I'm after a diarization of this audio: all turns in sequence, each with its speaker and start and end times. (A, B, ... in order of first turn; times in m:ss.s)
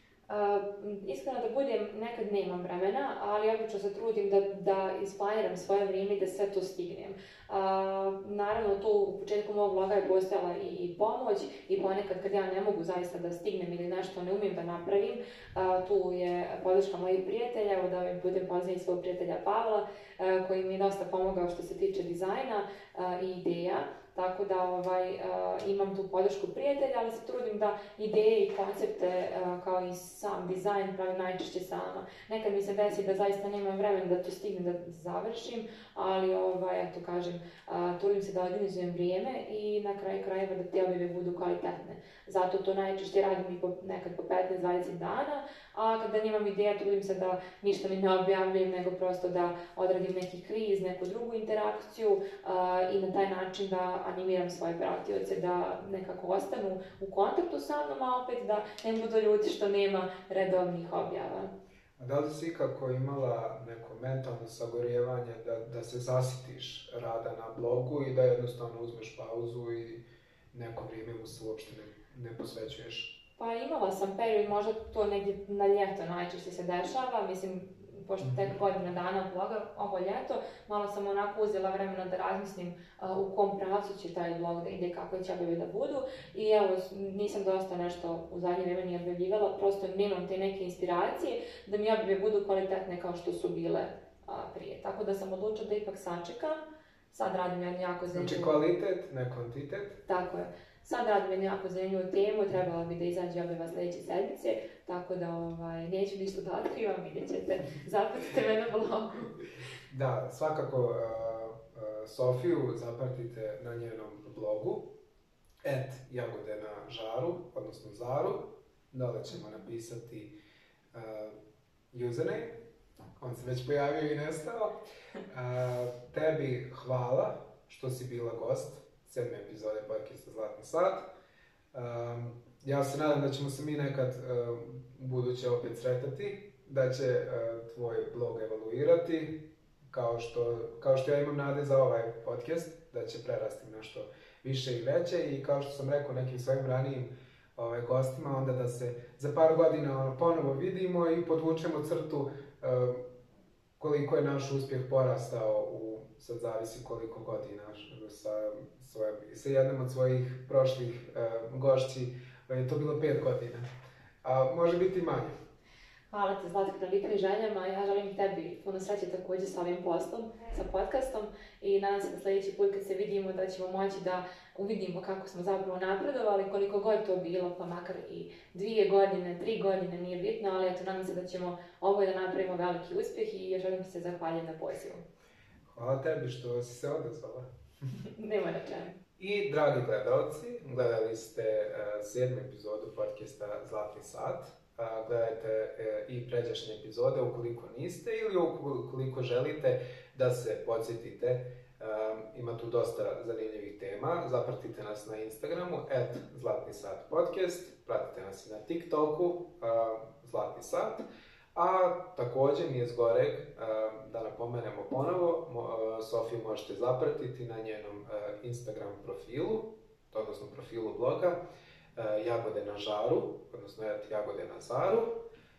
0:00.3-1:01.5 A
1:02.0-1:13.2 B
1:13.4-1:38.6 A
1:18.2-1:18.5 B
1:38.1-1:40.0 B
1:40.1-1:49.4 A
1:49.9-1:55.0 B
1:55.6-2:00.4 B
2:00.9-2:01.4 B
2:01.9-2:02.7 B
2:03.2-2:11.1 B
2:11.7-2:33.1 B
2:33.8-2:43.6 B
2:44.2-2:45.4 B
2:46.1-3:05.0 A
3:05.7-3:07.5 B
3:08.0-3:09.0 A
3:09.2-3:31.0 B
3:31.6-3:41.4 B
3:42.0-3:45.3 B